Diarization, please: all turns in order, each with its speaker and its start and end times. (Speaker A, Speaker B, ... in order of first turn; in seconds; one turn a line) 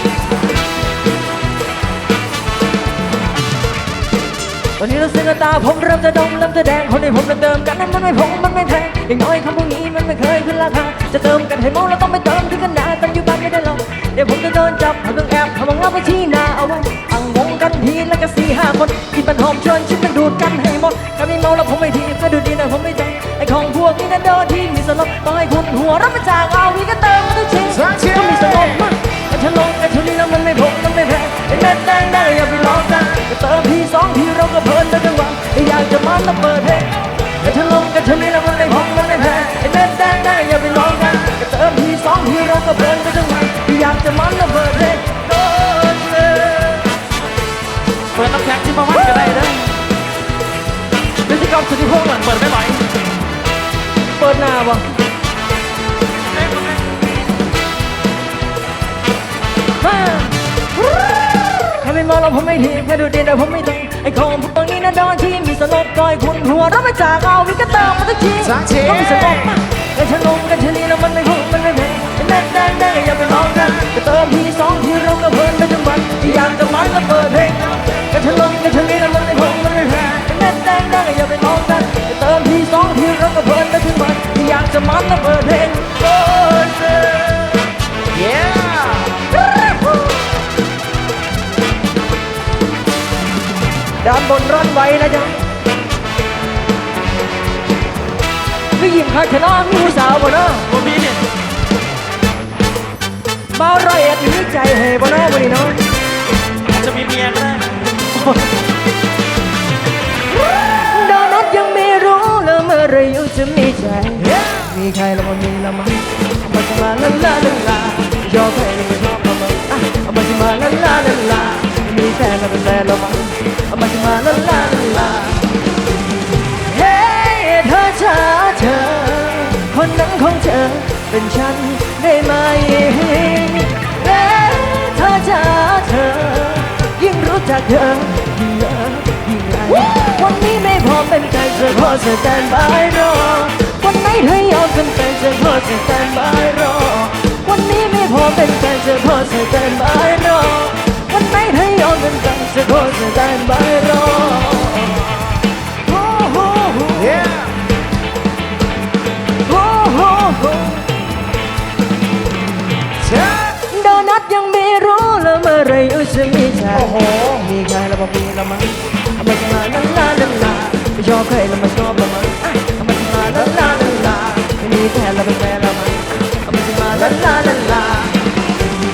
Speaker A: 4.8-47.0
Speaker B: 27.7-28.9
Speaker C: 48.1-49.8
Speaker A: 51.3-52.3
Speaker C: 52.2-52.9
Speaker A: 54.2-54.9
Speaker C: 56.3-57.0
Speaker A: 59.8-87.7
Speaker B: 68.4-69.6
Speaker B: 88.1-89.2
Speaker A: 94.0-95.4
Speaker A: 98.8-100.7
Speaker C: 100.7-101.2
Speaker A: 103.5-105.8
Speaker C: 106.7-108.4
Speaker A: 110.6-125.5
Speaker B: 114.2-114.7
Speaker A: 126.6-155.3
Speaker A: 155.9-157.3
Speaker B: 156.9-157.6
Speaker A: 159.4-160.9
Speaker B: 163.0-163.6
Speaker A: 163.7-178.1
Speaker B: 166.7-167.5
Speaker B: 176.9-177.5